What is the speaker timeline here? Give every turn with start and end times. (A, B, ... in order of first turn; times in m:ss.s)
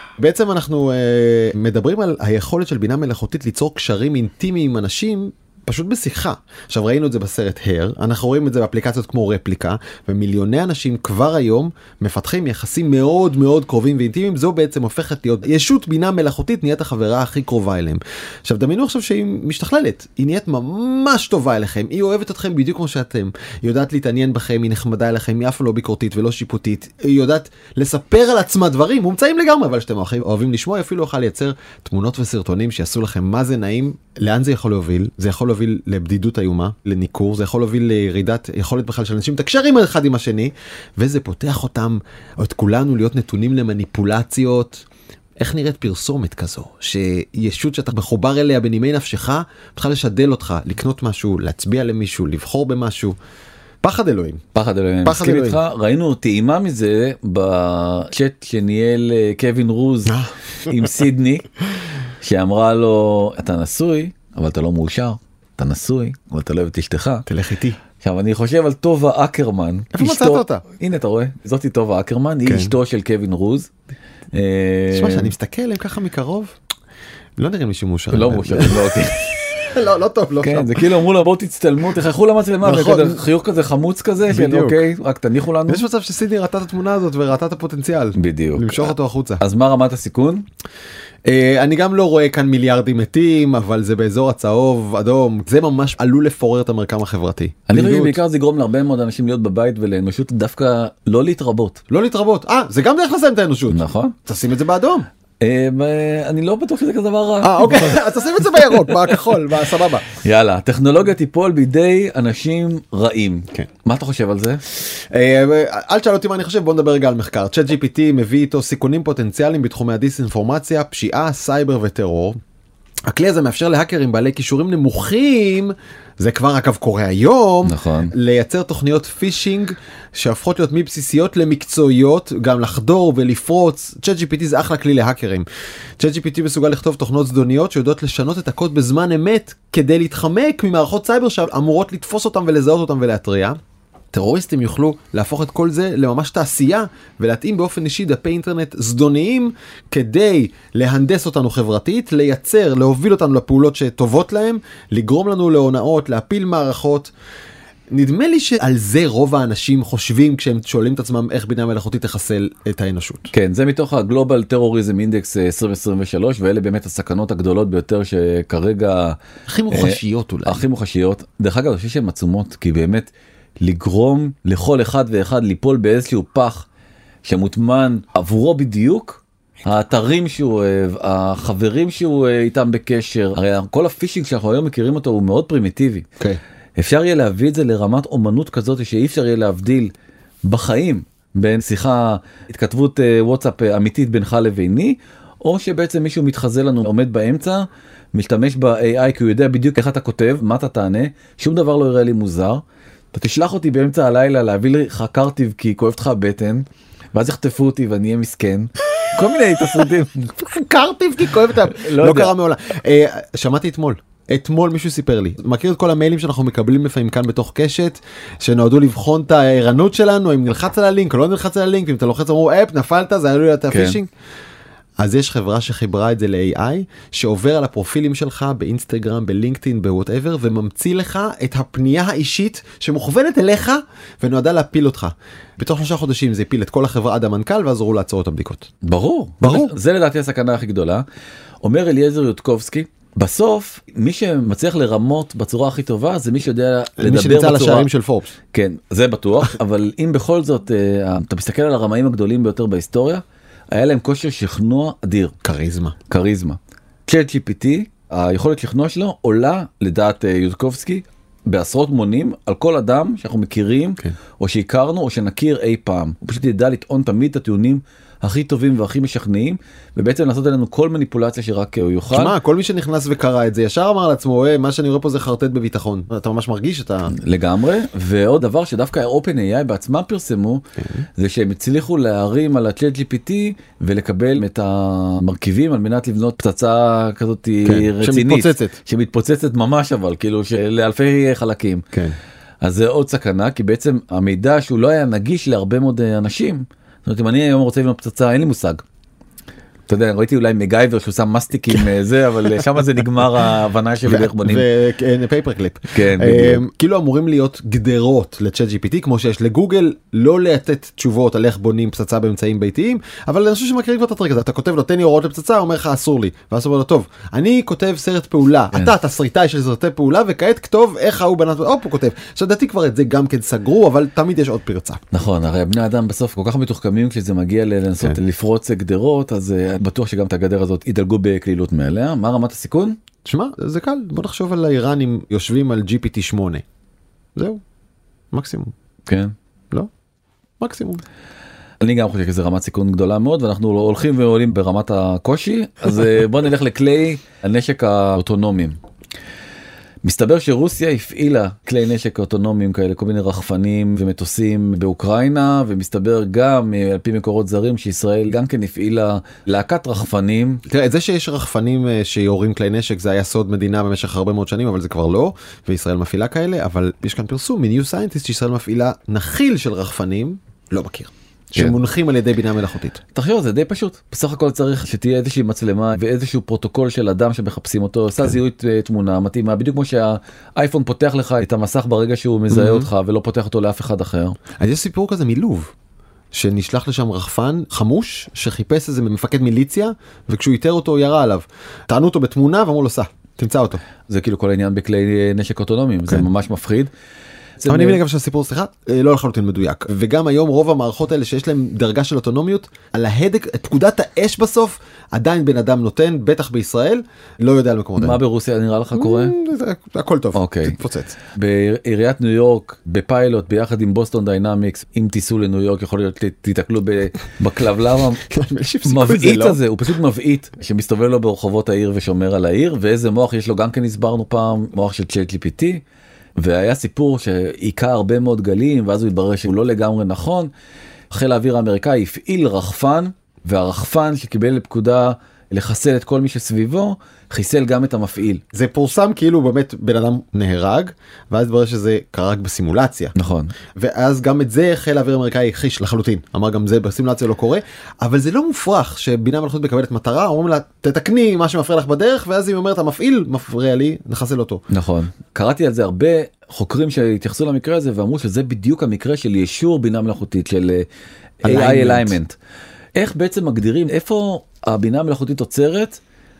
0:00.2-0:44.8 A
0:45.4-0:53.2 A
0:53.8-0:54.4 A
0:54.5-1:01.5 B
0:55.0-0:55.6 A
1:00.1-1:01.0 A
1:02.2-1:07.3 B
1:07.3-1:07.8 A
1:08.0-1:13.7 B
1:09.9-1:10.6 A
1:12.5-1:12.7 A
1:14.3-1:15.3 B
1:14.9-1:16.6 A
1:17.4-1:19.0 A
1:18.1-1:19.7 B
1:19.6-1:20.8 A
1:20.4-1:25.8 B
1:22.6-1:23.2 A
1:24.3-1:24.8 A
1:25.7-1:29.4 A
1:28.2-1:30.5 B
1:31.2-1:38.2 A
1:37.7-1:41.8 B
1:41.9-1:45.1 A
1:43.7-1:44.2 B
1:45.4-1:49.2 B
1:47.4-1:50.0 A
1:50.1-1:54.6 B
1:54.9-2:02.4 A
2:03.1-2:15.5 A
2:07.6-2:08.1 B
2:16.0-2:23.6 A
2:24.1-2:37.1 A
2:37.9-2:43.3 A
2:43.3-2:49.2 B
2:49.5-2:50.6 A
2:49.7-2:53.1 B
2:53.6-2:56.6 B
2:57.3-3:06.1 B
3:06.8-3:09.9 B
3:10.5-3:22.6 B
3:23.1-3:30.3 B
3:30.4-3:44.1 A
3:31.7-3:32.3 B
3:43.7-3:44.0 B
3:45.0-3:58.7 A
3:58.8-4:01.0 B
3:59.4-3:59.7 A
4:01.6-4:07.9 B
4:07.0-4:08.4 A
4:08.5-4:15.4 B
4:15.4-4:16.0 A
4:16.1-4:32.4 B
4:32.1-4:37.1 A
4:37.1-4:40.6 B
4:40.8-4:41.0 A
4:41.2-4:51.8 B
4:47.6-4:48.8 A
4:52.6-4:58.8 B
4:59.9-5:04.6 B
5:04.1-5:25.0 A
5:05.9-5:06.6 B
5:25.1-5:33.0 B
5:33.2-5:36.6 A
5:37.4-5:37.6 A
5:38.3-5:38.7 A
5:39.1-5:39.3 B
5:40.6-5:41.0 A
5:41.8-5:48.8 B
5:50.0-6:00.6 B
6:00.7-6:13.0 A
6:13.1-6:24.4 B
6:22.5-6:22.9 A
6:24.6-6:25.7 A
6:26.3-6:33.8 A
6:34.1-6:36.9 B
6:37.6-6:38.0 B
6:37.7-6:48.2 A
6:48.0-6:49.3 B
6:48.9-6:51.2 A
6:50.4-6:50.8 B
6:51.4-6:58.2 B
6:58.3-6:59.6 A
6:58.8-7:05.8 B
7:06.4-7:10.5 B
7:11.1-7:18.4 B
7:18.5-7:23.1 A
7:23.1-7:23.5 B
7:23.8-7:34.6 A
7:34.7-7:40.8 B
7:41.4-7:42.4 B
7:41.4-7:42.1 A
7:43.0-7:46.0 B